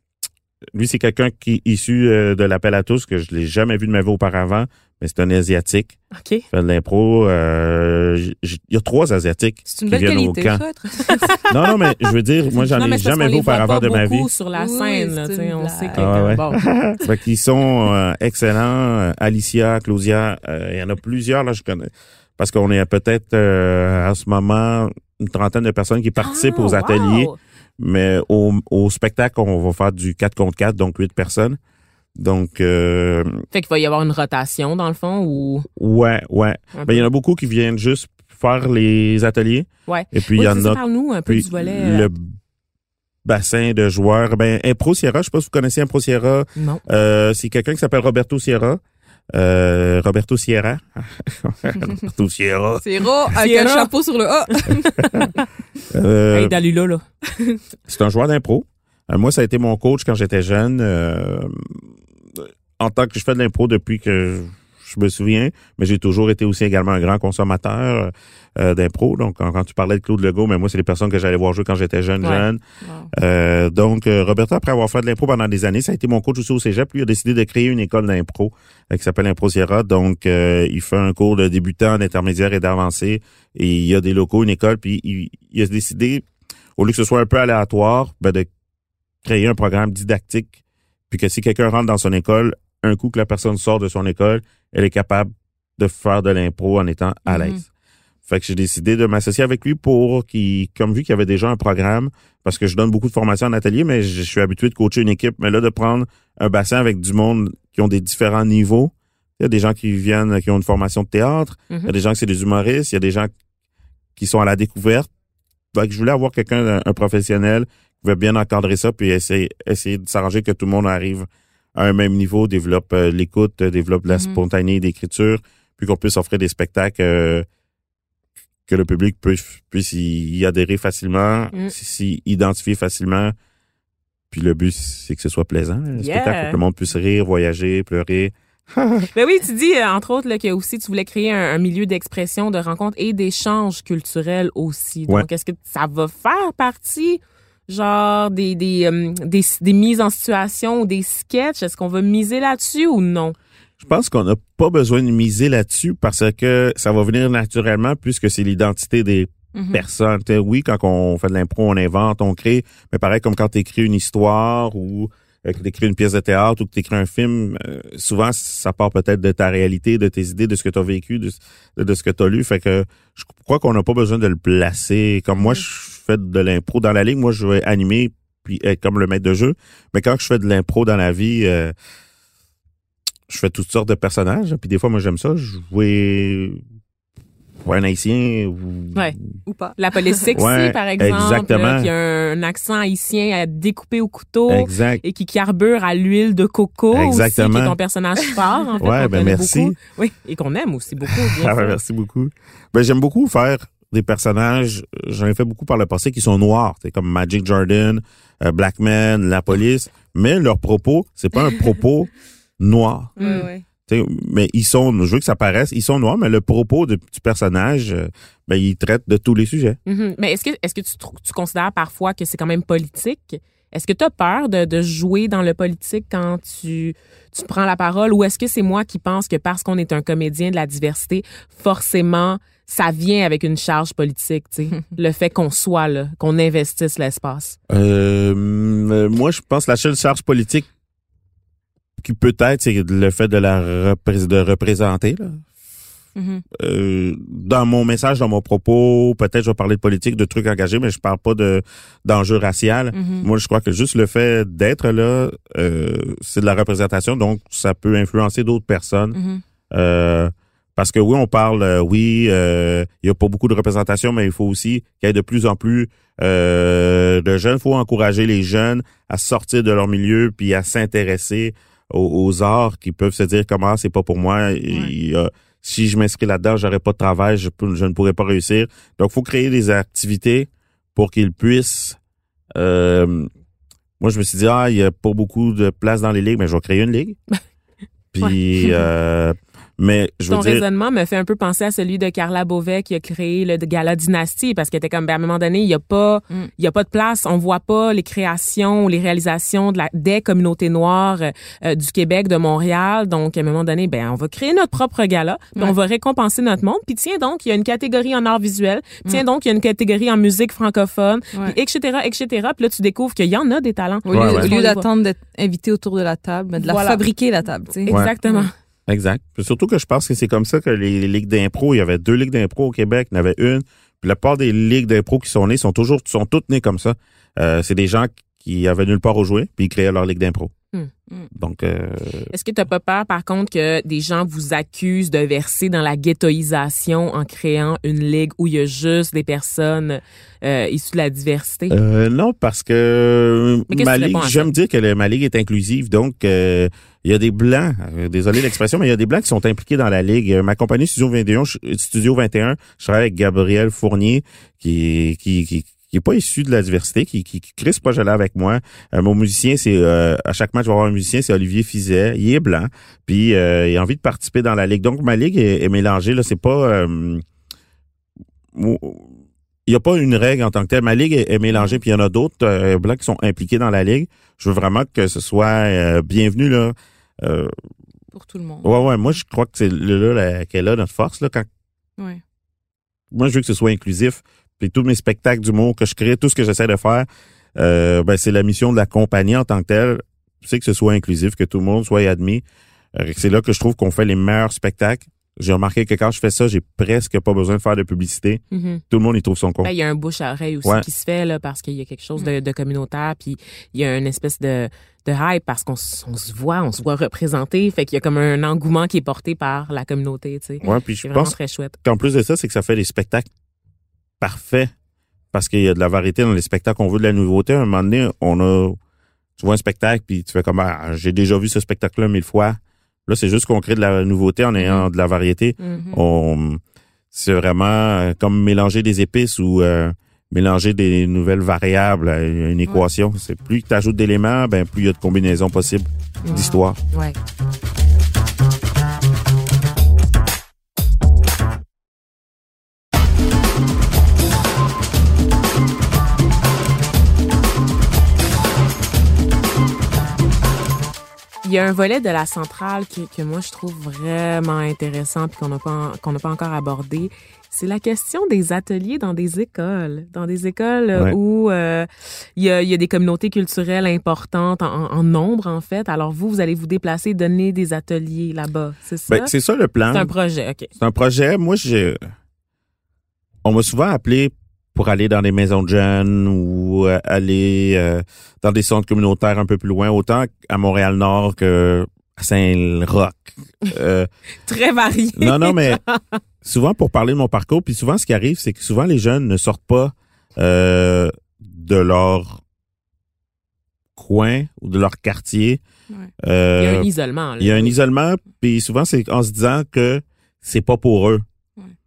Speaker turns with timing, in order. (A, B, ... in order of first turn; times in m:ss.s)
0:00.7-0:06.0 A
0:06.1-0:06.4 B
0:06.5-0:10.6 A
0:09.7-0:11.3 C
0:11.0-0:16.6 B
0:11.5-0:14.3 A
0:14.5-0:16.3 C
0:16.0-0:31.6 A
0:26.2-0:27.4 B
0:32.2-0:33.4 A
0:33.5-0:35.7 B
0:35.8-0:42.3 A
0:36.7-0:37.0 B
0:39.9-0:42.1 B
0:43.2-0:48.8 A
0:46.6-0:46.8 B
0:49.3-0:52.8 A
0:52.8-0:55.1 C
0:53.4-0:53.9 B
0:54.5-0:55.4 B
0:55.0-0:55.3 A
0:55.9-0:56.5 A
0:56.3-0:57.0 B
0:57.8-1:01.8 A
1:02.3-1:12.6 A
1:12.8-1:13.1 C
1:13.1-1:26.2 A
1:26.8-1:28.5 A
1:29.2-1:30.5 A
1:31.1-1:37.6 A
1:37.3-1:37.6 C
1:38.2-1:53.3 A
1:54.2-1:55.1 A
1:55.7-2:07.4 A
2:04.1-2:04.4 C
2:08.7-2:13.3 A
2:14.3-2:19.1 A
2:16.0-2:16.6 B
2:19.1-2:33.4 B
2:33.8-3:01.7 A
2:39.5-2:39.8 C
3:03.3-3:06.6 A
3:07.6-3:09.3 A
3:09.4-3:10.2 C
3:09.8-3:21.8 B
3:10.3-3:11.9 A
3:14.5-3:15.0 A
3:16.9-3:17.8 A
3:18.8-3:19.8 A
3:21.1-3:39.8 A
3:33.2-3:33.5 B
3:33.2-3:33.6 C
3:39.8-3:57.6 B
3:57.7-4:00.7 A
4:02.0-4:05.4 A
4:06.2-4:06.4 C
4:06.5-4:19.2 A
4:12.9-4:13.3 C
4:19.1-4:19.4 C
4:19.7-4:42.0 A
4:42.5-4:43.3 A
4:44.0-4:47.2 A
4:48.1-4:50.6 A
4:50.3-5:14.8 B
5:14.0-5:18.5 C
5:14.1-5:14.5 A
5:16.6-5:17.0 B
5:17.8-5:18.5 B
5:17.9-5:18.1 A
5:18.9-5:30.5 A
5:31.3-5:32.3 A
5:32.3-5:41.8 B
5:41.7-6:07.2 A
5:43.7-5:44.5 B
6:08.5-6:09.1 A
6:09.6-6:17.5 A
6:11.5-6:11.8 C
6:18.1-6:19.2 C
6:18.6-6:21.5 A
6:23.1-6:32.4 A
6:33.0-6:39.7 A
6:38.5-6:38.8 B
6:39.6-6:51.8 B
6:50.6-6:53.3 A
6:54.2-6:54.7 A
6:55.3-6:58.8 A
6:59.4-7:06.6 A
7:05.8-7:06.0 C
7:07.1-7:16.8 A
7:16.2-7:17.1 B
7:16.3-7:16.6 C
7:31.4-7:49.3 B
7:49.1-7:50.1 A
7:49.9-7:50.7 B
7:50.8-7:52.0 A
7:53.4-8:04.1 A
8:04.4-8:06.2 B
8:05.2-8:05.8 A
8:06.4-8:12.4 A
8:14.0-8:15.6 A
8:16.2-8:16.9 A
8:16.6-8:17.8 B
8:17.4-8:21.2 A